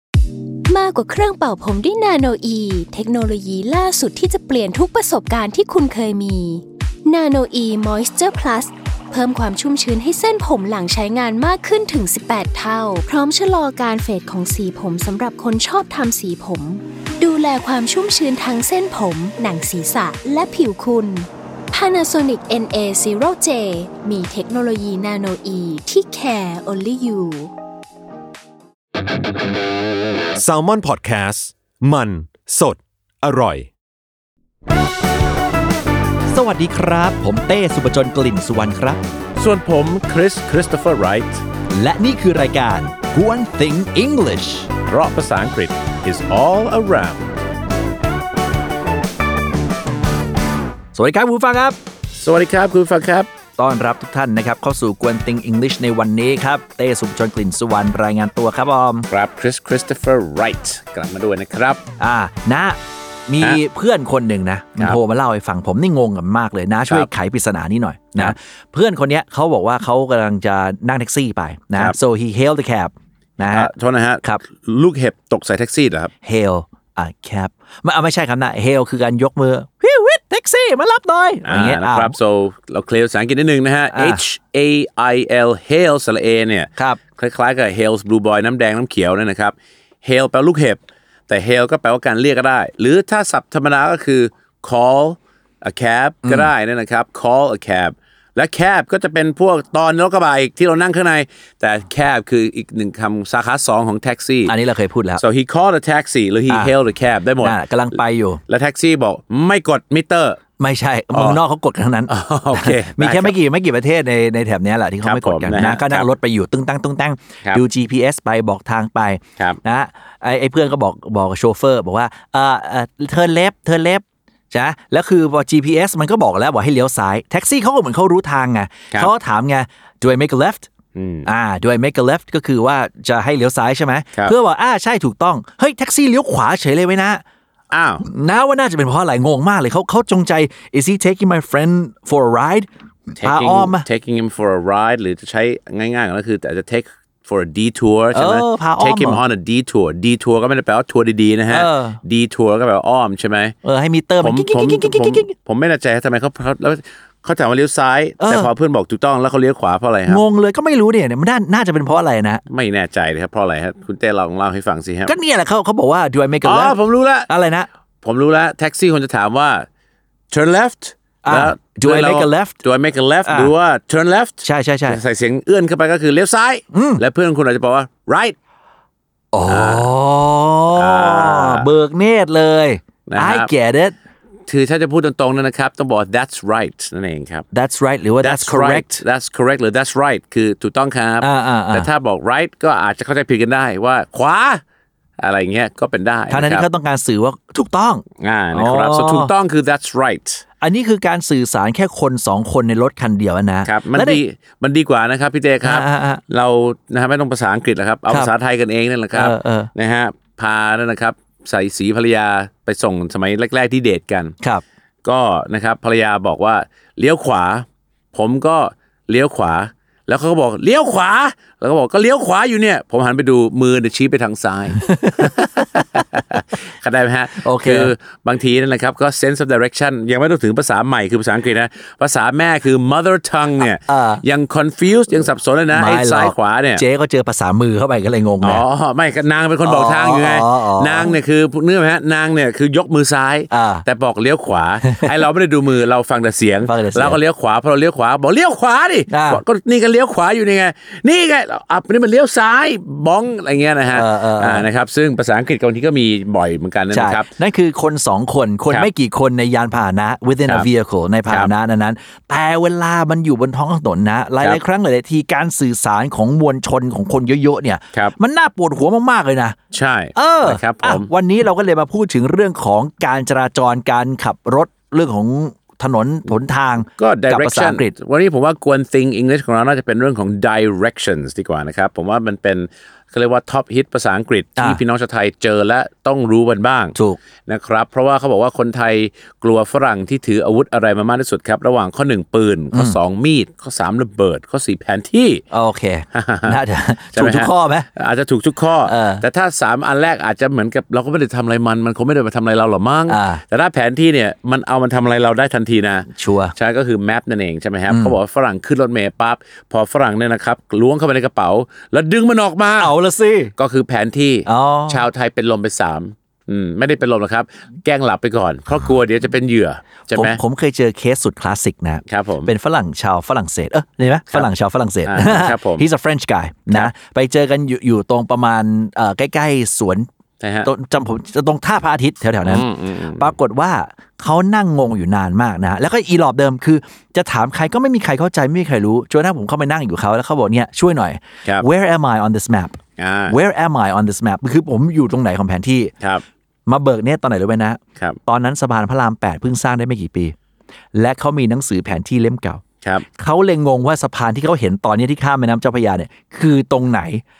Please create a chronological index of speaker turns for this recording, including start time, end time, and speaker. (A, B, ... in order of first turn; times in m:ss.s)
0:00.7-0:27.5 A
0:30.4-0:33.7 B
0:36.3-0:39.0 C
0:39.4-0:41.4 D
0:41.7-0:44.7 C
0:44.8-0:47.3 D
0:50.9-0:51.8 C
0:52.2-0:53.3 D
0:53.6-0:59.1 C
0:59.1-1:01.8 D
1:02.0-1:13.7 C
1:13.4-1:16.1 D
1:16.2-1:22.2 C
1:21.4-1:44.5 D
1:23.9-1:24.2 C
1:36.2-1:36.5 C
1:44.5-1:45.2 C
1:45.2-1:47.6 D
1:47.4-1:48.4 C
1:48.5-1:50.4 D
1:50.6-2:10.7 C
1:51.1-1:51.4 D
1:52.1-1:53.3 D
1:55.0-1:56.1 D
2:10.9-2:11.3 D
2:11.2-2:17.2 C
2:17.7-2:18.0 D
2:18.0-2:23.8 C
2:23.2-2:33.5 D
2:28.1-2:29.2 C
2:31.5-2:32.0 C
2:33.6-2:35.3 C
2:34.2-2:40.2 D
2:38.2-2:38.5 C
2:40.1-2:42.4 C
2:42.5-2:45.1 D
2:45.1-2:47.7 C
2:46.4-2:47.3 D
2:48.0-2:49.6 D
2:50.3-2:58.4 D
2:51.2-2:52.6 C
2:53.2-2:53.5 C
2:54.4-2:55.0 C
2:56.7-2:57.0 C
2:59.3-3:04.0 C
2:59.4-2:59.9 D
3:00.7-3:01.7 D
3:03.1-3:03.5 D
3:04.5-3:07.4 D
3:07.5-3:09.0 C
3:08.2-3:14.6 D
3:11.2-3:11.9 C
3:15.2-3:16.6 D
3:16.3-3:19.3 C
3:18.2-3:20.4 D
3:20.6-3:24.2 C
3:23.6-3:34.3 D
3:25.6-3:26.2 C
3:29.1-3:29.7 C
3:35.0-3:56.8 D
3:44.8-3:45.6 C
3:47.4-3:47.9 C
3:53.6-3:54.2 C
3:55.7-3:58.6 C
3:58.4-4:17.3 D
3:59.6-4:01.1 C
4:03.5-4:03.8 C
4:04.8-4:05.2 C
4:06.7-4:07.2 C
4:09.1-4:09.4 C
4:13.9-4:14.7 C
4:16.9-4:29.6 C
4:29.7-4:31.1 D
4:30.1-4:37.9 C
4:37.0-4:46.9 D
4:47.5-4:55.4 D
4:52.7-4:53.0 C
4:55.5-4:57.9 C
4:56.1-4:56.6 D
4:57.1-5:12.9 D
4:58.8-4:59.2 C
5:03.1-5:03.4 C
5:06.1-5:06.5 C
5:07.9-5:08.2 C
5:12.8-5:13.5 C
5:13.6-5:20.4 D
5:14.5-5:15.0 C
5:20.1-5:30.1 C
5:22.1-5:22.5 D
5:25.0-5:25.8 D
5:30.4-5:30.7 D
5:30.6-5:45.9 C
5:32.4-5:33.3 D
5:43.0-5:43.4 D
5:46.7-5:50.3 C
5:50.9-5:52.6 C
5:53.2-5:57.2 C